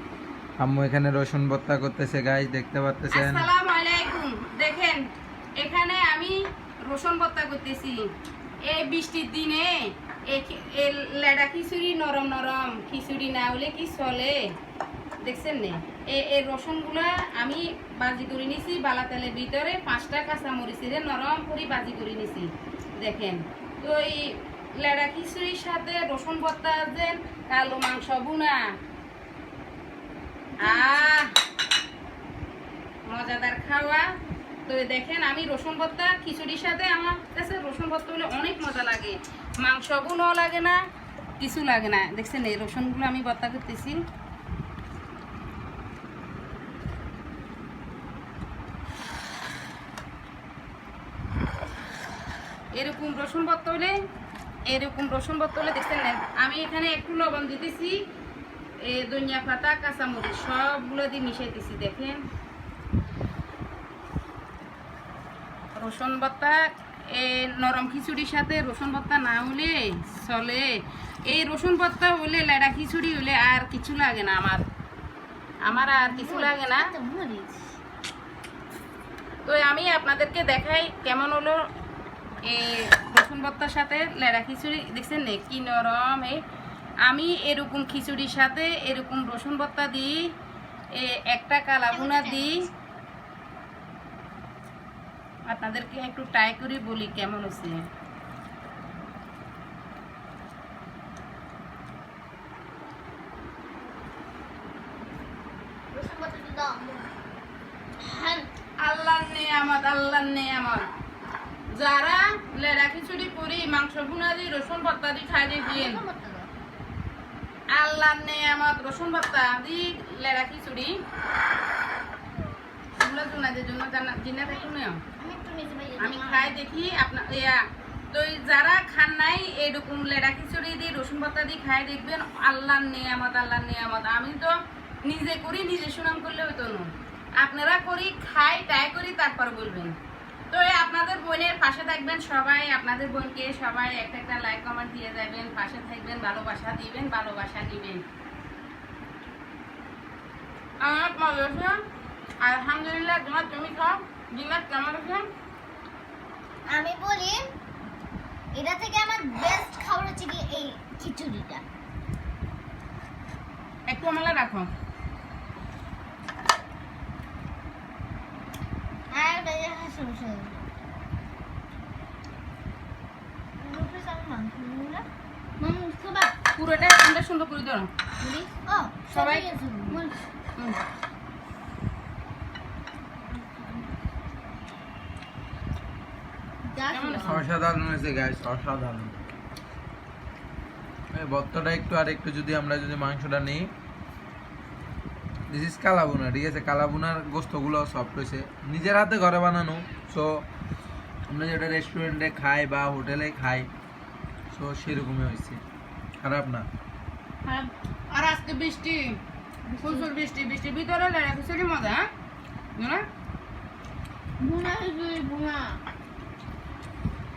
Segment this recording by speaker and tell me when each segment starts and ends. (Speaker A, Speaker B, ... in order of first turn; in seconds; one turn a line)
Speaker A: 0.6-3.5
Speaker B: 3.1-5.0
Speaker B: 5.6-6.3
Speaker B: 6.9-8.1
Speaker B: 8.7-14.4
Speaker B: 15.2-28.6
Speaker C: 30.6-31.1
Speaker B: 30.6-31.3
Speaker B: 33.1-34.1
Speaker B: 34.7-40.8
Speaker B: 41.4-44.0
Speaker B: 52.8-53.9
Speaker B: 54.7-58.0
Speaker B: 58.8-62.2
Speaker B: 65.8-74.6
Speaker B: 75.6-76.9
Speaker C: 75.7-77.7
Speaker B: 79.5-81.6
Speaker B: 82.4-86.4
Speaker B: 87.0-90.2
Speaker B: 91.0-92.6
Speaker C: 91.9-92.7
Speaker B: 95.5-97.8
Speaker C: 105.9-107.1
Speaker C: 108.0-108.5
Speaker B: 108.8-110.9
Speaker B: 111.7-116.0
Speaker C: 115.7-116.5
Speaker B: 117.7-121.0
Speaker B: 123.0-125.0
Speaker C: 124.5-126.6
Speaker B: 126.0-139.9
Speaker B: 140.5-148.0
Speaker B: 150.8-151.8
Speaker B: 152.4-155.3
Speaker C: 156.7-157.4
Speaker C: 158.5-161.6
Speaker B: 163.9-164.7
Speaker C: 169.1-170.7
Speaker C: 173.6-175.1
Speaker C: 175.6-176.3
Speaker B: 176.6-177.9
Speaker C: 178.2-180.2
Speaker B: 179.1-180.0
Speaker B: 180.6-180.8
Speaker C: 183.3-183.9
Speaker C: 186.7-187.4
Speaker B: 186.9-187.4
Speaker A: 187.2-189.2
Speaker A: 191.1-193.7
Speaker A: 195.5-200.3
Speaker A: 201.3-203.7
Speaker A: 204.5-205.6
Speaker A: 206.2-206.7
Speaker C: 207.4-207.7
Speaker B: 208.1-209.2
Speaker C: 209.7-210.1
Speaker B: 209.8-212.1
Speaker B: 212.8-213.0
Speaker C: 214.4-215.8